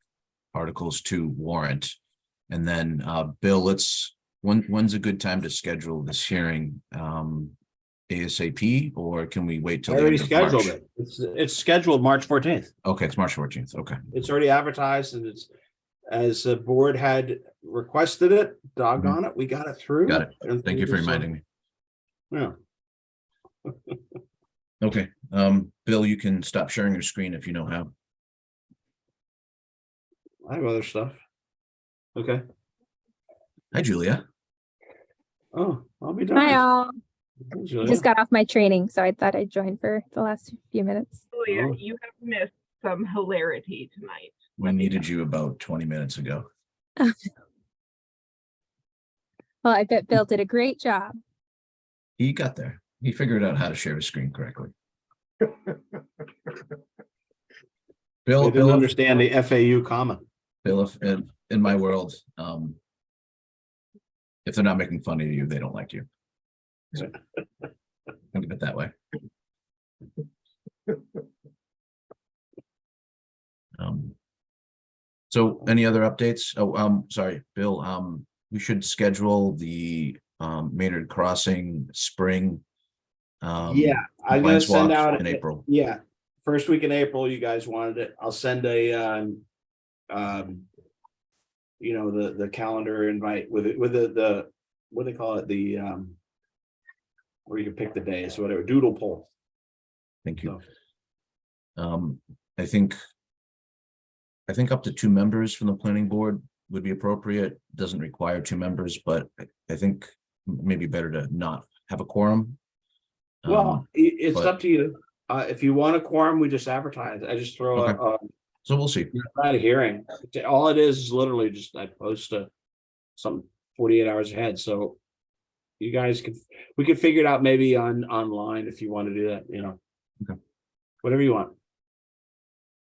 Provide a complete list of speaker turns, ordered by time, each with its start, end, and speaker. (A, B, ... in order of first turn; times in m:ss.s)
0:00.5-0:02.0 A
0:02.5-0:07.5 A
0:08.1-0:10.7 A
0:09.9-0:12.7 B
0:12.8-0:14.0 A
0:14.1-0:15.5 B
0:16.1-0:21.3 B
0:20.1-0:21.4 A
0:22.3-0:22.6 B
0:23.6-0:24.0 B
0:24.8-0:27.9 A
0:30.4-0:31.2 B
0:32.1-0:32.4 B
0:33.7-0:34.2 A
0:35.5-0:36.6 B
0:36.4-0:36.9 C
0:37.5-0:38.0 B
0:37.8-0:41.2 C
0:41.3-0:45.0 D
0:41.5-0:41.8 B
0:44.6-0:46.4 A
0:49.6-0:51.2 C
0:52.2-0:54.7 A
0:58.2-0:58.9 A
0:58.4-1:00.2 B
1:00.6-1:02.8 A
1:04.4-1:06.0 A
1:08.3-1:08.9 A
1:13.8-1:14.1 A
1:15.3-1:22.6 A
1:23.4-1:25.6 A
1:23.6-1:29.4 B
1:30.1-1:30.6 B
1:31.8-1:36.2 B
1:37.5-1:39.3 B
1:40.2-1:40.5 A
1:41.8-1:43.0 A
1:44.5-1:52.6 A
1:53.4-1:54.5 A
1:53.5-1:58.3 B
1:57.7-1:58.0 A
1:58.6-1:59.1 A
1:59.1-2:02.5 B
2:03.2-2:05.0 B
2:05.8-2:09.8 B
2:11.0-2:11.5 B